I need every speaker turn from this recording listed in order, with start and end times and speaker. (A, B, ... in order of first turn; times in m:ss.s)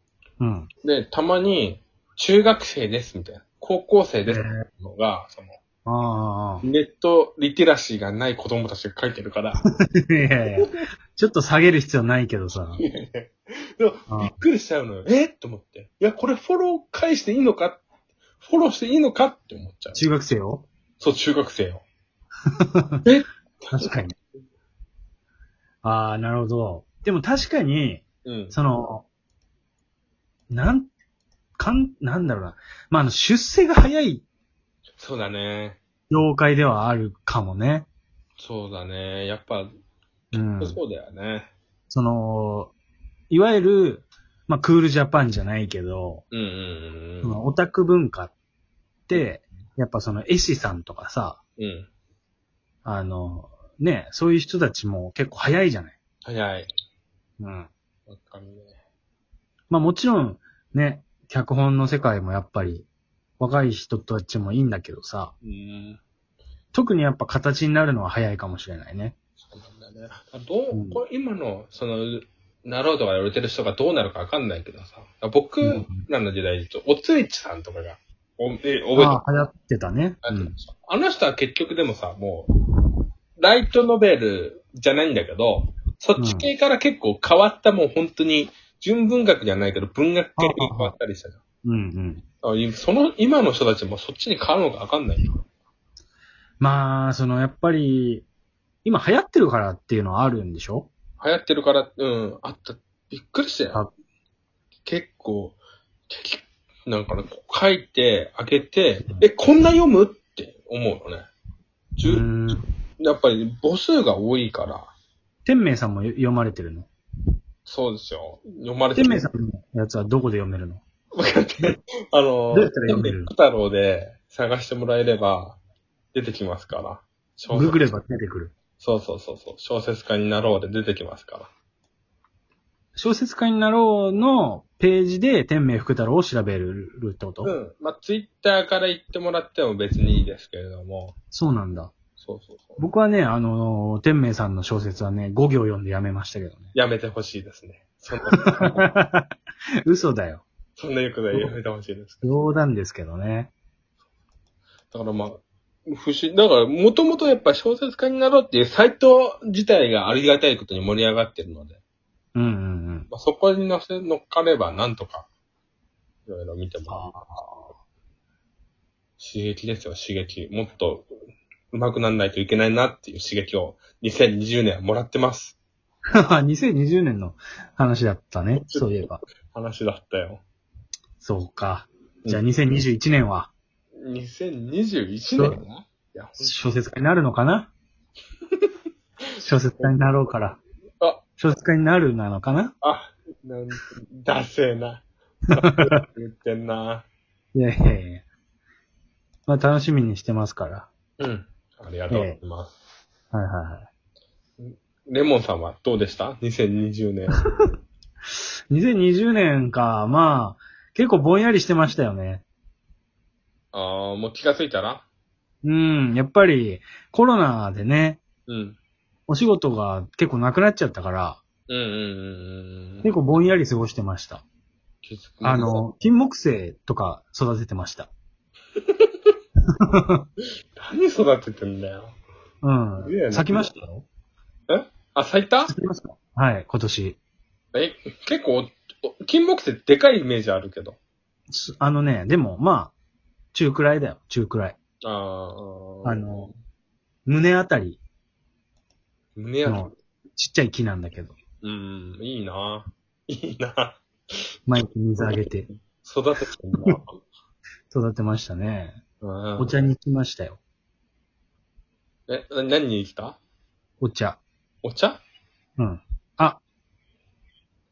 0:00.4-0:00.7 A
0:00.8-0:05.6 B
0:04.3-0:04.6 A
0:05.8-0:06.6 A
0:06.6-0:09.6 B
0:09.8-0:12.8 A
0:10.6-0:10.8 B
0:12.8-0:17.8 B
0:18.4-0:20.0 B
0:19.9-0:20.6 A
0:21.0-0:21.8 B
0:22.6-0:23.0 A
0:23.0-0:23.9 B
0:23.7-0:24.1 A
0:25.8-0:29.0 A
0:28.2-0:28.6 B
0:30.5-0:30.9 A
0:31.6-0:34.2 A
0:35.0-0:35.8 B
0:36.1-0:37.9 A
0:38.4-0:39.7 B
0:40.3-0:40.8 A
0:40.6-0:41.5 B
0:41.9-0:42.7 A
0:43.3-0:46.2 A
0:46.3-0:47.4 B
0:47.2-0:48.3 A
0:49.1-0:51.4 A
0:51.6-0:51.9 B
0:52.8-0:56.0 A
0:56.2-0:56.7 B
0:57.4-0:57.7 A
0:58.1-0:58.8 B
0:59.7-1:02.8 A
1:03.4-1:05.3 A
1:05.4-1:06.0 B
1:06.7-1:09.1 A
1:09.4-1:19.2 B
1:10.7-1:11.0 A
1:15.6-1:16.0 A
1:18.9-1:20.5 A
1:20.2-1:22.5 B
1:23.4-1:31.4 B
1:26.2-1:26.5 A
1:30.4-1:30.9 A
1:31.6-1:32.2 A
1:32.4-1:35.4 B
1:36.6-1:38.2 A
1:38.8-1:40.9 A
1:41.2-1:43.8 B
1:44.8-1:45.6 B
1:46.1-1:51.3 B
1:52.0-1:52.3 B
1:52.0-1:52.6 A
1:53.0-1:54.9 B
1:55.4-1:56.9 A
1:57.6-1:59.3 B
1:58.9-2:00.8 A
2:01.1-2:05.6 B
2:02.5-2:03.3 A
2:06.1-2:07.9 B
2:07.5-2:08.5 A
2:08.8-2:11.5 B
2:13.0-2:17.5 A
2:17.4-2:21.1 B
2:21.3-2:21.9 A
2:22.2-2:22.8 B
2:22.8-2:26.7 A
2:26.7-2:28.9 B
2:28.3-2:29.3 A
2:29.8-2:30.4 A
2:30.8-2:32.4 B
2:32.2-2:33.5 A
2:34.9-2:41.8 B
2:42.3-2:43.1 A
2:43.1-2:45.3 B
2:46.3-2:47.1 B
2:46.9-2:47.7 A
2:49.2-2:51.1 B
2:51.7-2:55.6 B
2:56.2-2:59.2 A
2:58.5-2:58.9 B
2:59.5-3:00.4 B
3:01.2-3:03.5 A
3:04.0-3:06.6 B
3:06.4-3:07.7 A
3:09.4-3:10.6 A
3:11.4-3:12.7 A
3:12.8-3:17.0 B
3:15.7-3:16.0 A
3:17.5-3:18.2 A
3:19.5-3:20.9 A
3:21.2-3:22.7 B
3:22.1-3:22.4 A
3:23.3-3:23.8 A
3:24.6-3:27.4 B
3:27.4-3:27.6 A
3:28.7-3:32.4 A
3:33.7-3:35.0 B
3:35.6-3:38.2 A
3:38.5-3:38.8 B
3:39.3-3:41.4 A
3:41.7-3:43.1 B
3:43.0-3:44.4 A
3:45.0-3:45.8 B
3:45.4-3:48.1 A
3:48.8-3:49.1 B
3:49.8-3:50.2 A
3:50.8-3:52.1 B
3:52.6-3:54.0 A
3:53.0-3:53.8 B
3:54.7-3:55.7 B
3:55.7-3:57.2 A
3:57.7-4:01.0 B
4:01.5-4:02.9 A
4:03.5-4:04.8 A
4:05.0-4:06.4 B
4:06.0-4:06.5 A
4:07.2-4:08.0 A
4:09.4-4:09.9 B
4:09.6-4:11.4 A
4:11.6-4:14.3 B
4:14.7-4:15.7 A
4:16.0-4:17.2 B
4:17.9-4:19.0 A
4:19.2-4:19.8 B
4:19.6-4:20.6 A
4:22.3-4:23.4 B
4:24.0-4:24.4 A
4:24.8-4:25.2 B
4:25.8-4:26.6 A